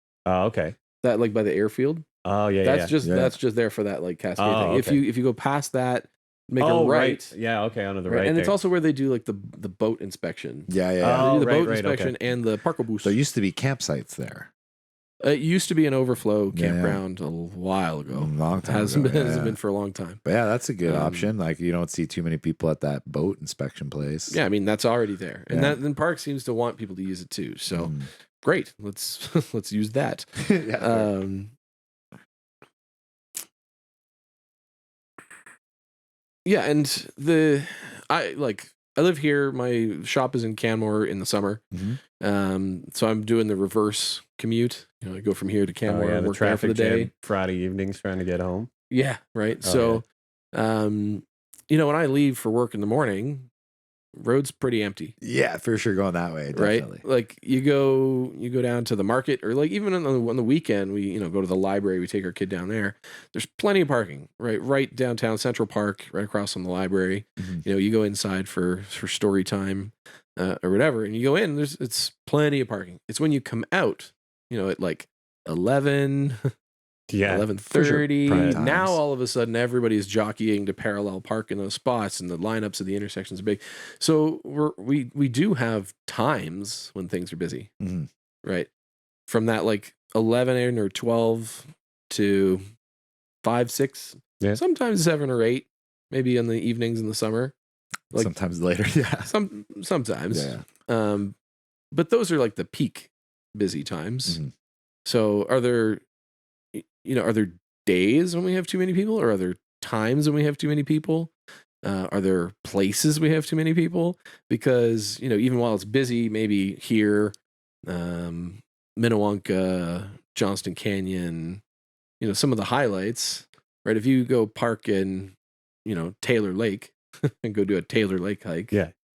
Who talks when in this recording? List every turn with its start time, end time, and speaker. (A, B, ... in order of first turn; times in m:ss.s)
0:00.3-0:00.8 A
0:01.0-0:02.0 B
0:02.2-0:02.9 A
0:02.6-0:07.3 B
0:03.0-0:03.4 C
0:04.4-0:05.0 A
0:06.6-0:08.5 A
0:08.1-0:13.2 B
0:10.7-0:11.3 C
0:11.0-0:12.1 A
0:13.0-0:14.5 C
0:15.2-0:20.2 B
0:16.5-0:17.0 C
0:18.1-0:19.6 C
0:20.2-0:24.4 C
0:20.8-0:21.3 B
0:24.3-0:31.5 B
0:25.5-0:25.8 C
0:27.7-0:28.1 C
0:30.4-0:31.1 C
0:36.4-0:47.1 B
0:41.7-0:42.0 C
0:45.8-0:48.7 A
0:48.9-0:53.5 B
0:49.6-0:50.0 A
0:54.1-0:55.1 B
0:55.2-0:57.0 C
0:56.5-1:16.4 B
1:17.1-1:17.6 A
1:17.2-1:27.7 B
1:17.7-1:19.0 C
1:18.2-1:18.6 A
1:27.8-1:28.1 C
1:28.4-1:28.7 B
1:29.3-1:32.6 B
1:33.4-1:37.5 B
1:38.1-1:39.3 C
1:39.2-1:41.3 B
1:40.3-1:40.7 C
1:41.9-1:44.4 B
1:45.0-1:46.0 B
1:46.7-1:51.3 B
1:51.8-1:57.3 B
1:57.9-2:01.6 B
2:02.2-2:08.7 B